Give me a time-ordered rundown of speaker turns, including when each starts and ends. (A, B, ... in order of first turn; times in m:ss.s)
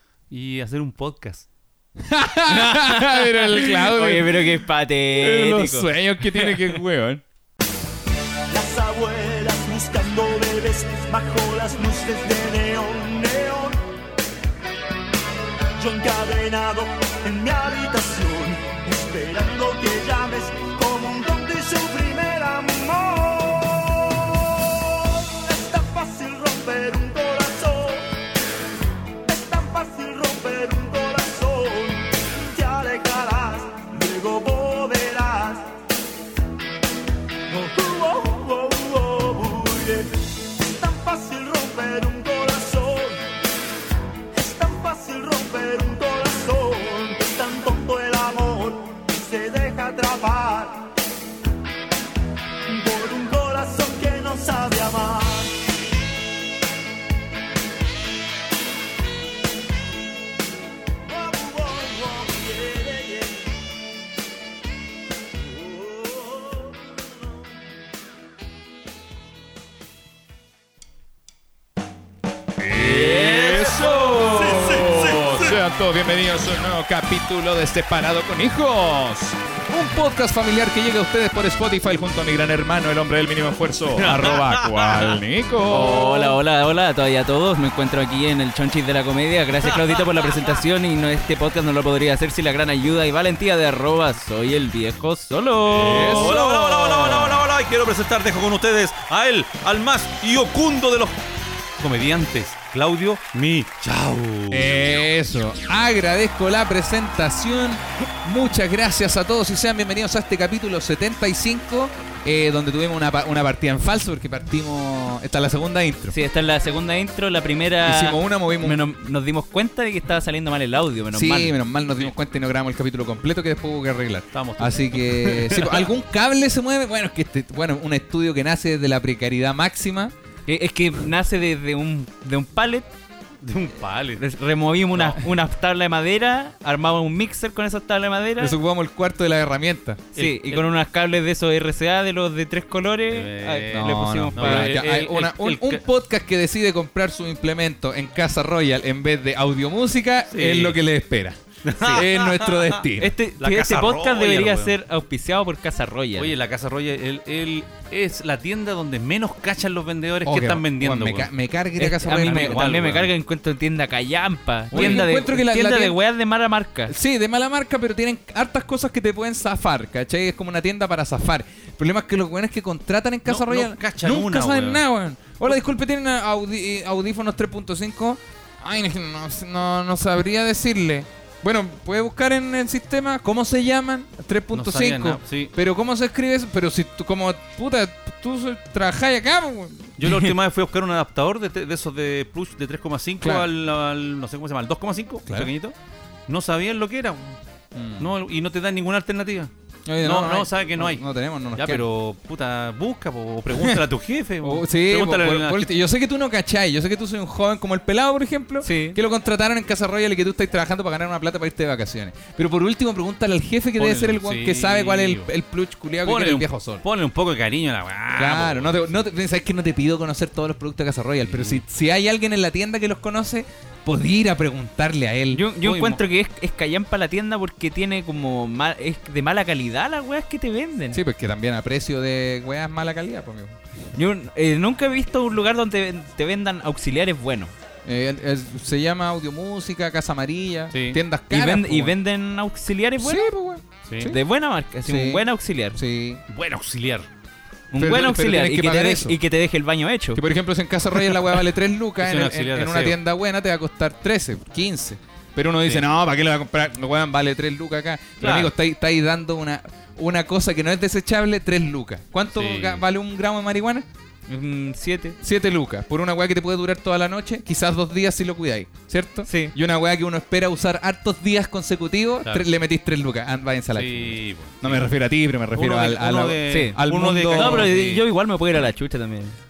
0:00.3-0:01.5 A
0:02.0-0:07.2 B
0:02.5-0:06.8 C
0:08.5-0:13.8 D
0:15.8-0:28.2 D
0:29.2-0:35.7 D
0:37.5-0:43.4 D
0:44.3-0:50.9 D
0:52.7-0:55.7 D
1:01.0-1:03.5 D
1:05.4-1:06.7 D
1:12.6-1:26.4 B
1:13.0-1:15.5 D
1:14.5-1:15.0 A
1:23.9-1:25.2 A
1:25.7-1:36.3 C
1:35.7-1:37.4 B
1:35.7-1:41.2 A
1:41.8-1:45.0 A
1:44.5-1:56.2 B
1:56.1-2:01.6 C
1:57.8-1:58.8 B
2:01.1-2:10.1 B
2:04.3-2:05.9 A
2:10.5-2:12.9 C
2:13.4-2:14.2 A
2:14.2-2:18.5 C
2:14.9-2:15.3 A
2:18.4-2:20.1 B
2:20.1-2:24.9 C
2:20.2-2:20.6 A
2:23.1-2:25.8 A
2:23.7-2:33.1 B
2:30.3-2:30.8 A
2:31.6-2:32.8 A
2:33.0-2:36.3 C
2:33.4-2:34.7 A
2:36.2-2:41.3 A
2:40.2-2:42.9 B
2:41.8-2:46.9 C
2:42.1-2:43.1 A
2:44.7-2:45.1 A
2:44.7-2:46.0 B
2:46.9-3:10.0 B
2:53.2-2:54.8 A
3:04.5-3:05.5 A
3:10.0-3:15.7 A
3:13.2-3:13.5 B
3:16.3-3:17.4 A
3:17.7-3:18.1 B
3:18.0-3:19.5 A
3:19.8-3:21.8 B
3:20.0-3:25.7 A
3:23.5-3:23.8 B
3:24.4-3:36.8 B
3:28.6-3:29.0 C
3:33.8-3:35.3 A
3:36.0-3:38.9 A
3:38.2-3:45.4 B
3:41.2-3:41.6 A
3:45.3-3:51.0 C
3:45.6-3:46.0 A
3:50.9-3:53.6 B
3:53.9-3:57.5 C
3:57.8-4:01.9 B
4:00.7-4:01.0 A
4:01.3-4:03.3 C
4:03.0-4:04.2 B
4:03.9-4:04.2 A
4:04.0-4:05.8 C
4:04.8-4:06.2 B
4:06.3-4:07.1 A
4:07.7-4:10.2 C
4:07.8-4:09.2 B
4:10.2-4:23.8 B
4:12.0-4:13.0 A
4:18.2-4:18.5 A
4:22.3-4:22.8 A
4:24.3-4:25.2 C
4:25.2-4:37.7 B
4:29.2-4:29.5 C
4:33.7-4:34.9 A
4:35.5-4:38.0 A
4:36.5-4:39.4 C